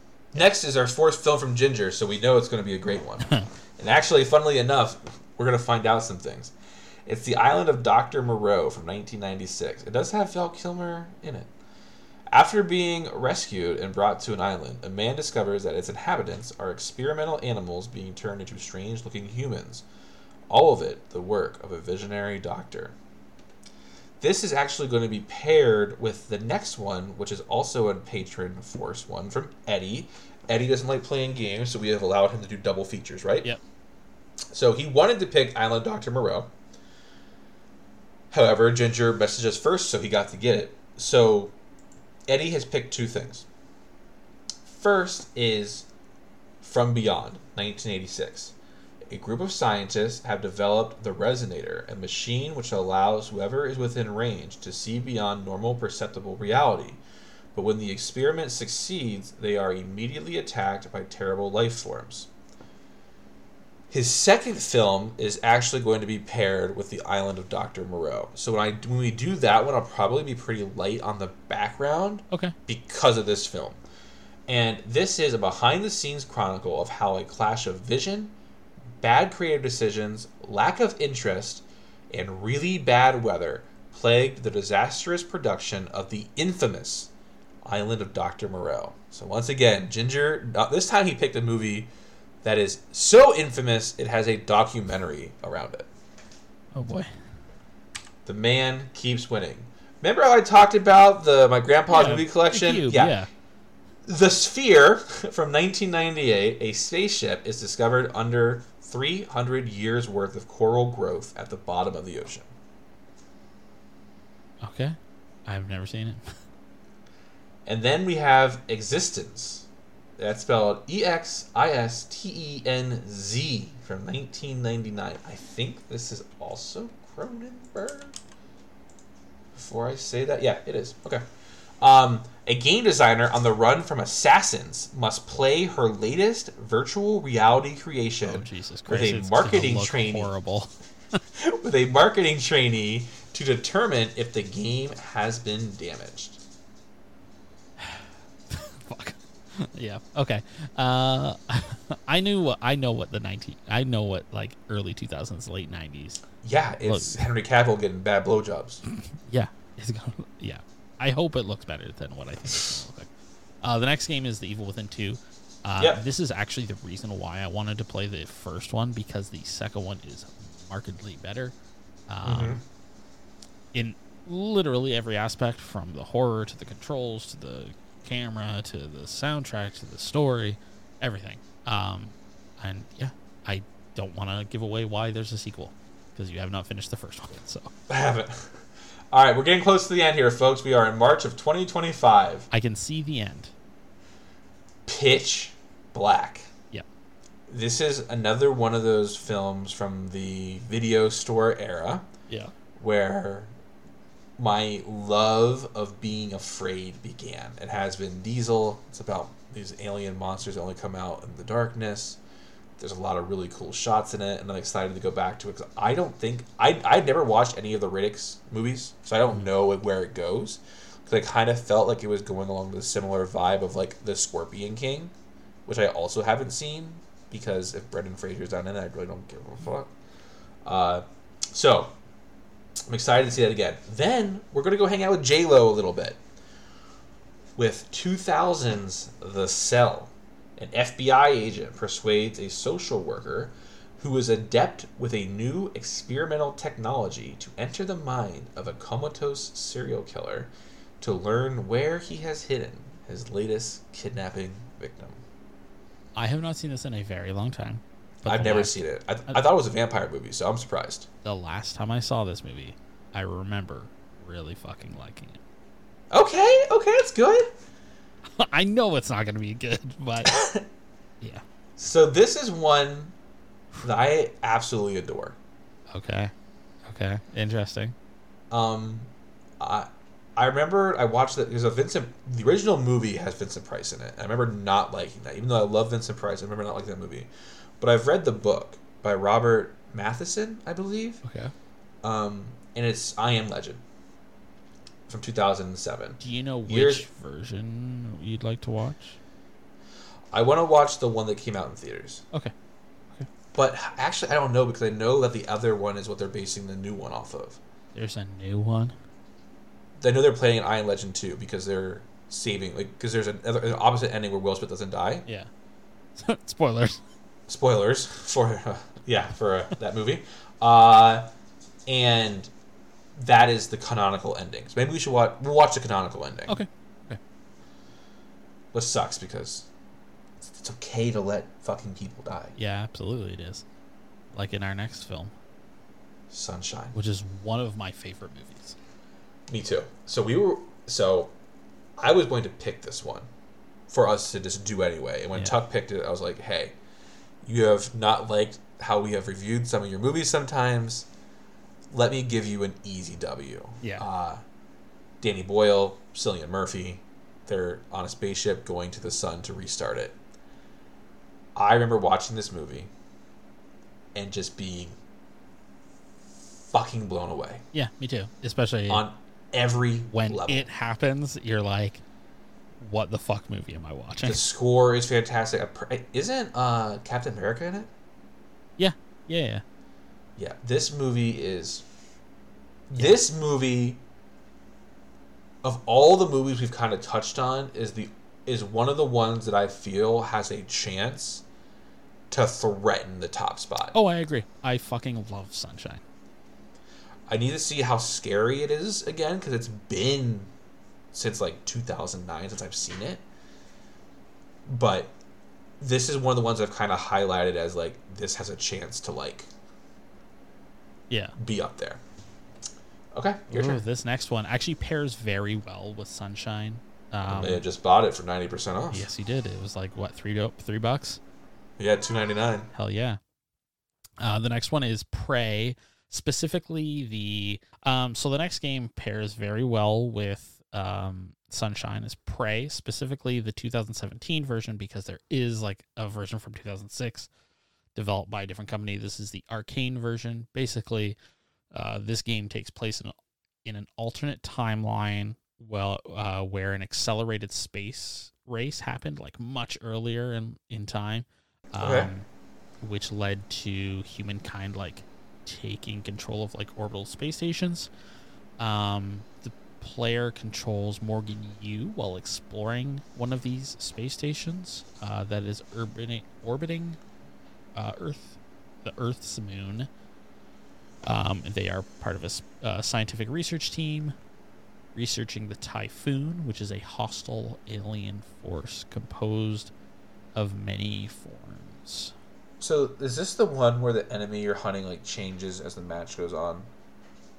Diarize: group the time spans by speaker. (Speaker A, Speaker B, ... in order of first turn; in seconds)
Speaker A: 0.3-6.5, 7.0-11.5, 12.3-19.8, 20.5-22.9, 24.2-33.5, 34.5-36.5, 38.3-41.5, 42.3-43.5, 44.6-45.9, 46.6-48.5, 49.1-57.0, 57.5-62.3, 63.9-73.8, 74.5-78.3, 79.0-87.1, 87.6-91.9, 92.4-95.9, 98.2-103.2, 104.0-112.5, 117.7-128.2, 129.5-131.2, 131.8-140.3, 141.4-146.4, 156.4-158.8, 172.2-172.6, 187.9-192.5, 194.8-196.5, 197.5-202.1, 202.8-203.5, 204.4-212.2, 212.8-225.1, 225.7-229.9, 230.6-231.9, 232.9-236.2, 237.6-255.2, 258.2-261.1, 266.1-267.5, 270.2-270.6, 271.8-273.1, 273.8-275.4, 278.5-287.3, 287.8-291.2, 292.0-293.8, 295.1-297.1, 300.3-302.2, 303.5-307.6, 310.0-315.2, 317.5-321.3, 321.9-322.5, 323.1-326.6, 328.7-329.7, 330.4-332.5, 336.3-336.9, 339.5-341.3, 342.0-343.3, 343.9-346.8, 347.4-351.1, 351.9-354.4, 355.2-360.1, 361.5-362.9, 364.1-365.0, 366.7-367.6, 368.9-370.7, 374.2-377.9, 380.4-381.8, 382.9-384.0, 385.6-391.4, 392.3-393.9, 397.3-400.5, 401.1-403.2, 404.6-405.1, 405.8-409.5, 411.4-412.0, 413.1-413.8, 417.2-419.0, 421.8-422.7, 451.8-452.1, 482.6-486.7
Speaker B: 3.2-3.5, 96.7-97.1, 101.9-103.3, 114.6-116.3, 138.2-141.2, 147.8-156.2, 156.8-157.2, 159.1-163.1, 163.6-171.5, 172.1-172.6, 173.7-187.7, 192.5-193.5, 202.3-202.5, 256.1-258.8, 261.2-265.4, 268.4-270.4, 275.9-276.3, 276.9-277.9, 291.2-291.5, 296.2-299.2, 307.9-308.9, 316.1-317.0, 326.5-327.2, 332.6-333.6, 334.3-335.3, 336.9-338.8, 367.7-369.0, 370.1-372.0, 372.8-374.4, 378.8-379.6, 393.9-396.0, 411.1-411.4, 413.5-417.6, 418.9-421.2, 422.7-423.2, 424.2-437.3, 437.9-441.1, 441.7-443.1, 443.6-452.3, 452.8-457.9, 458.6-467.0, 467.8-469.9, 471.0-474.1, 474.9-479.7, 480.3-482.1